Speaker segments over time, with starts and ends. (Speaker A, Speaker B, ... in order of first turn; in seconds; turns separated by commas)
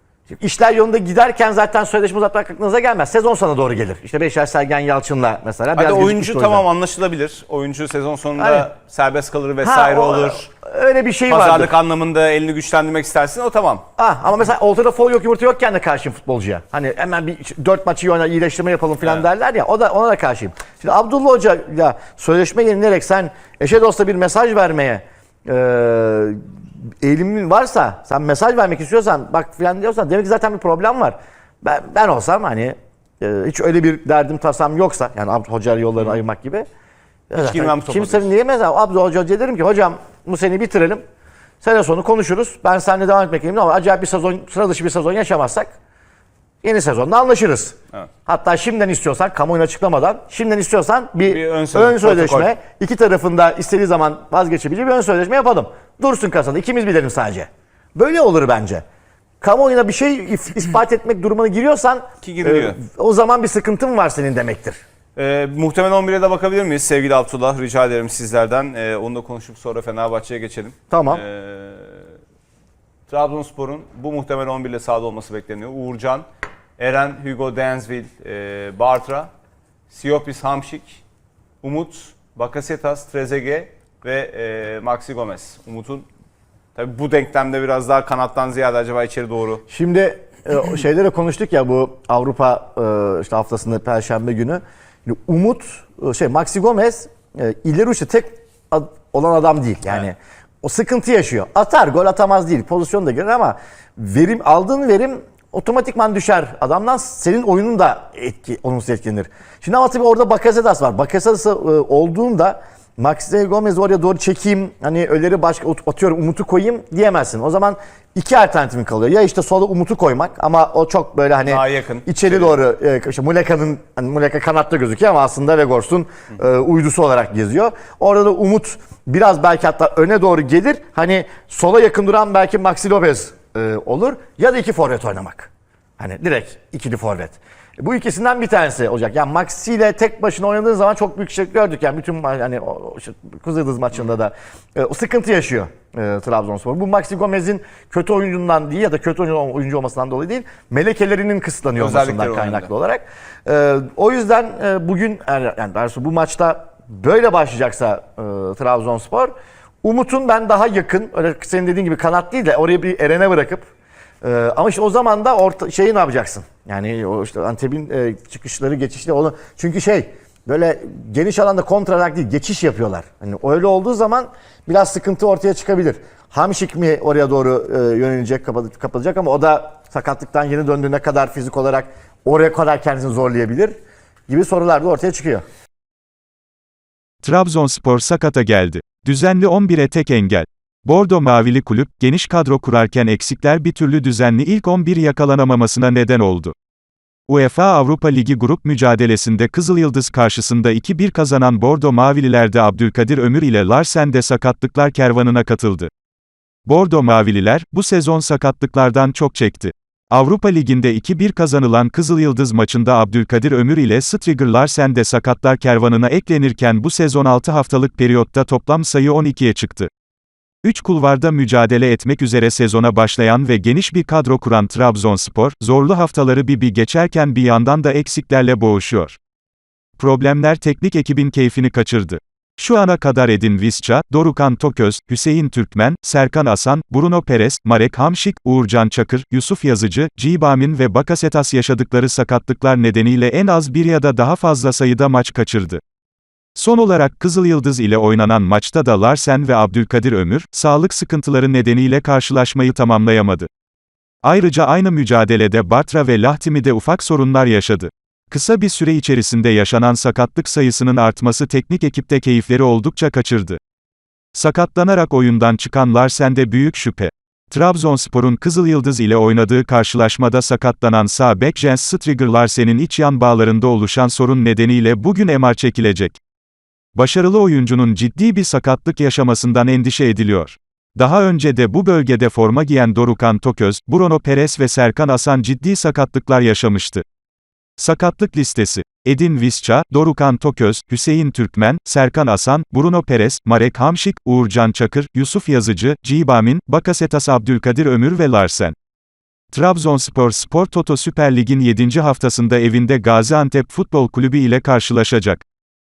Speaker A: 0.3-6.7, Speaker B: 5.7-10.5, Speaker A: 8.4-8.7, Speaker A: 9.6-11.7, Speaker B: 11.3-13.8, Speaker A: 14.0-26.4, Speaker A: 27.0-36.7, Speaker A: 37.3-41.0, Speaker B: 37.4-38.3, Speaker A: 41.6-45.7, Speaker A: 46.6-58.8, Speaker B: 51.2-52.5, Speaker A: 59.4-64.8, Speaker B: 62.2-62.8, Speaker B: 65.2-72.1, Speaker A: 70.9-71.2, Speaker B: 73.1-76.3, Speaker B: 76.8-79.3, Speaker B: 79.9-81.0, Speaker B: 81.6-86.1, Speaker B: 86.8-89.6, Speaker A: 89.7-159.3, Speaker B: 121.4-122.5, Speaker B: 151.8-152.7, Speaker A: 159.8-163.7, Speaker A: 164.2-183.8, Speaker A: 184.3-185.4, Speaker C: 187.2-196.5, Speaker C: 197.3-205.9, Speaker C: 206.7-219.9, Speaker C: 220.6-229.2, Speaker C: 230.0-245.8, Speaker C: 246.6-253.5, Speaker C: 254.2-263.6, Speaker C: 264.3-276.2, Speaker C: 277.0-287.0, Speaker C: 287.8-298.8, Speaker C: 299.5-305.4